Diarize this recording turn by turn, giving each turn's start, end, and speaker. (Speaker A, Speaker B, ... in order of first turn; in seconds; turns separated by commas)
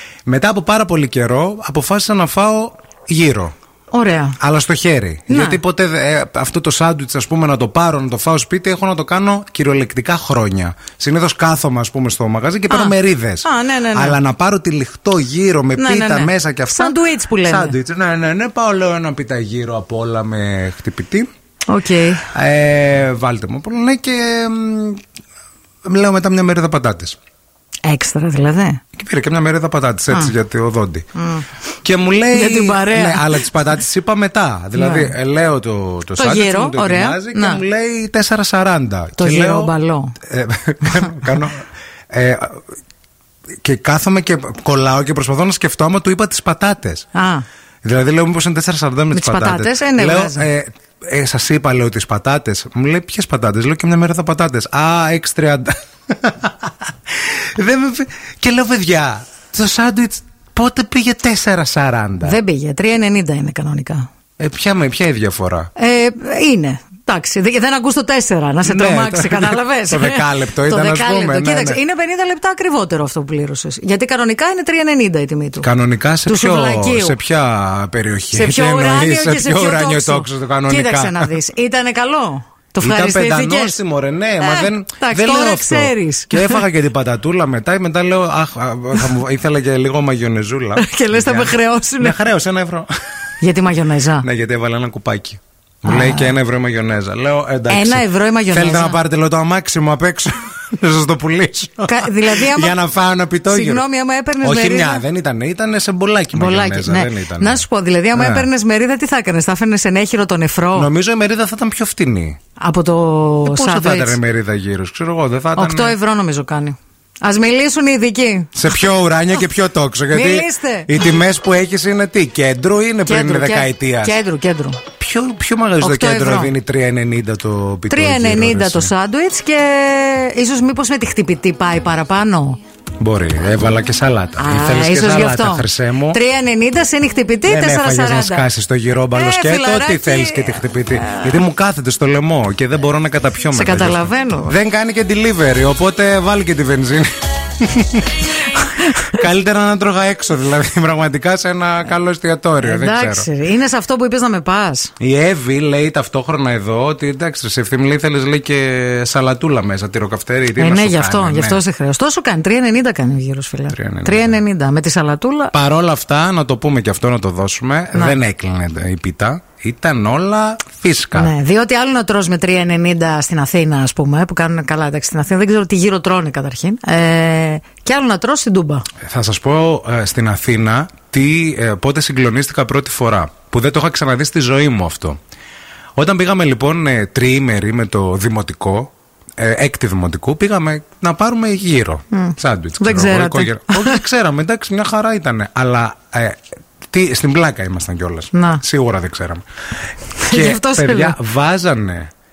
Speaker A: 0.2-3.5, Speaker B: 3.9-4.4, Speaker A: 4.4-21.3, Speaker B: 5.3-5.6, Speaker B: 12.7-14.2, Speaker B: 15.8-17.7, Speaker B: 21.7-22.3, Speaker A: 22.3-25.0, Speaker A: 25.8-27.2, Speaker B: 27.8-28.8, Speaker A: 28.9-31.1, Speaker B: 31.1-31.5, Speaker A: 31.8-42.6, Speaker B: 32.3-33.4, Speaker B: 34.7-35.1, Speaker B: 36.1-37.6, Speaker B: 39.2-40.1, Speaker B: 40.8-41.3, Speaker A: 43.6-47.1, Speaker B: 47.1-47.4, Speaker A: 47.8-62.4, Speaker B: 49.1-50.5, Speaker B: 62.2-64.0, Speaker A: 64.4-65.7, Speaker B: 65.8-75.7, Speaker A: 68.6-71.8, Speaker A: 75.6-81.3, Speaker B: 76.2-77.2, Speaker B: 78.3-83.8, Speaker A: 82.8-92.9, Speaker B: 84.4-86.6, Speaker B: 90.8-92.2, Speaker B: 93.4-94.2, Speaker A: 94.2-103.8, Speaker B: 95.8-96.3, Speaker B: 97.7-99.0, Speaker B: 101.8-102.8, Speaker B: 103.5-105.0, Speaker A: 104.4-107.6, Speaker B: 106.3-110.9, Speaker A: 108.1-108.5, Speaker A: 110.7-112.4, Speaker B: 112.6-114.2, Speaker A: 113.4-116.0, Speaker B: 115.5-118.8, Speaker A: 118.5-124.2, Speaker B: 120.1-121.0, Speaker B: 123.0-124.8, Speaker A: 125.0-128.9, Speaker B: 125.8-126.5, Speaker B: 127.9-132.6, Speaker A: 133.0-136.2, Speaker B: 134.4-138.4, Speaker A: 137.5-148.3, Speaker B: 139.1-141.4, Speaker B: 143.5-144.5, Speaker A: 148.8-153.3, Speaker B: 152.6-154.9, Speaker A: 155.0-161.6, Speaker B: 160.6-165.5, Speaker A: 163.7-164.4, Speaker A: 165.5-171.3, Speaker B: 167.9-168.2, Speaker B: 171.2-178.8, Speaker A: 179.0-185.2, Speaker A: 186.0-196.4, Speaker B: 192.1-194.0, Speaker A: 196.9-199.4, Speaker B: 198.3-198.6, Speaker B: 200.2-201.2, Speaker A: 200.2-202.1